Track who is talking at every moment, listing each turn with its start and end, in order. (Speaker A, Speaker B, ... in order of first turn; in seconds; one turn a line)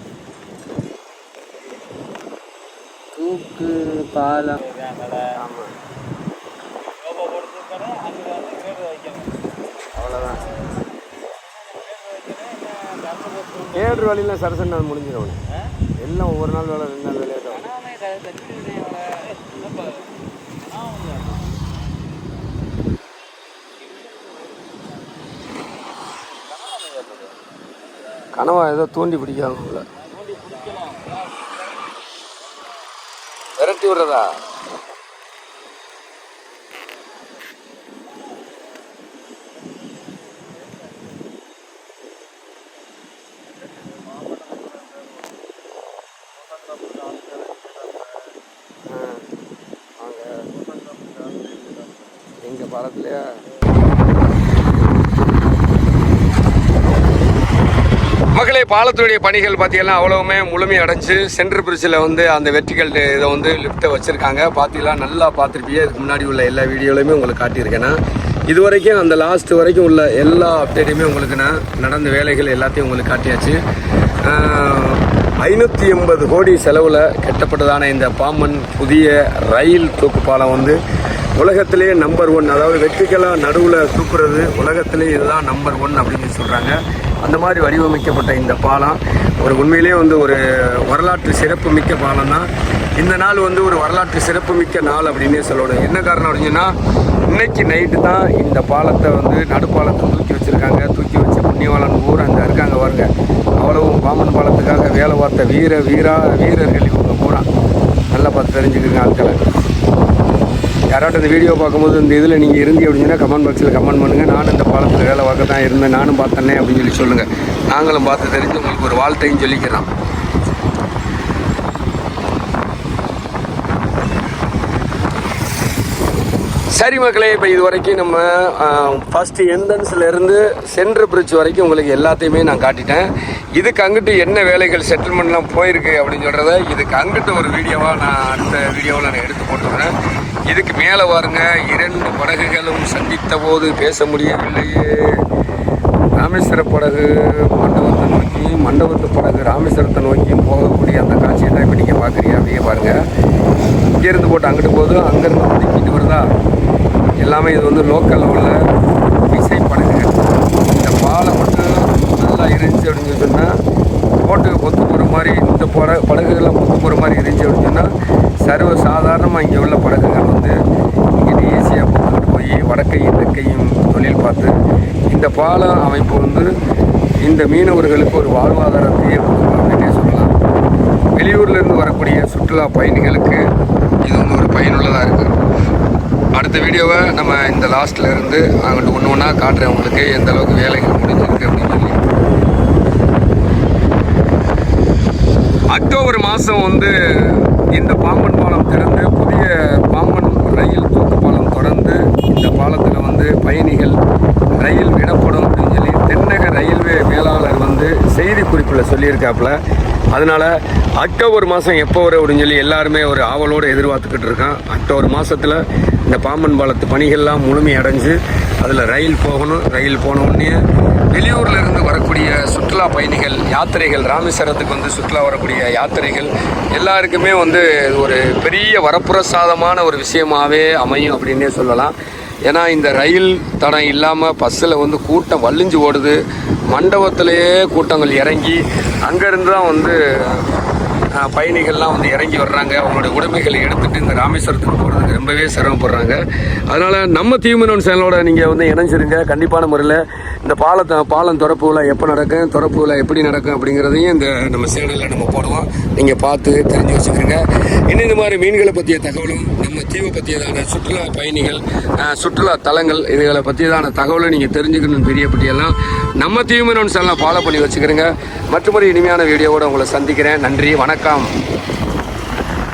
Speaker A: 3.1-5.2
Speaker B: 5.3-5.7
Speaker A: 6.9-9.4
Speaker B: 9.9-10.5
Speaker A: 11.2-14.1
Speaker B: 13.7-15.4
Speaker B: 16.0-17.6
Speaker A: 17.5-21.4
Speaker A: 23.9-24.3
Speaker A: 26.5-27.4
Speaker B: 28.4-29.9
Speaker A: 30.1-31.1
Speaker B: 33.6-34.4
Speaker A: 44.4-44.8
Speaker A: 46.8-47.7
Speaker B: 48.9-49.3
Speaker B: 50.0-50.5
Speaker A: 50.8-51.5
Speaker B: 52.4-53.3
Speaker B: 58.4-73.6
Speaker B: 74.2-80.8
Speaker B: 81.4-96.7
Speaker B: 97.3-107.5
Speaker B: 108.1-109.4
Speaker B: 110.9-119.9
Speaker B: 126.8-139.9
Speaker B: 140.5-145.2
Speaker B: 146.2-153.0
Speaker B: 153.9-156.3
Speaker B: 157.2-158.6
Speaker B: 159.3-160.1
Speaker B: 160.7-163.5
Speaker B: 164.2-167.9
Speaker B: 168.4-170.6
Speaker B: 171.2-174.6
Speaker B: 175.1-176.5
Speaker B: 177.2-180.3
Speaker B: 181.2-183.4
Speaker B: 184.1-185.3
Speaker B: 186.3-192.0
Speaker B: 195.7-204.0
Speaker B: 204.6-209.6
Speaker B: 210.1-220.6
Speaker B: 221.1-231.9
Speaker B: 232.5-236.2
Speaker B: 236.7-240.5
Speaker B: 241.2-271.3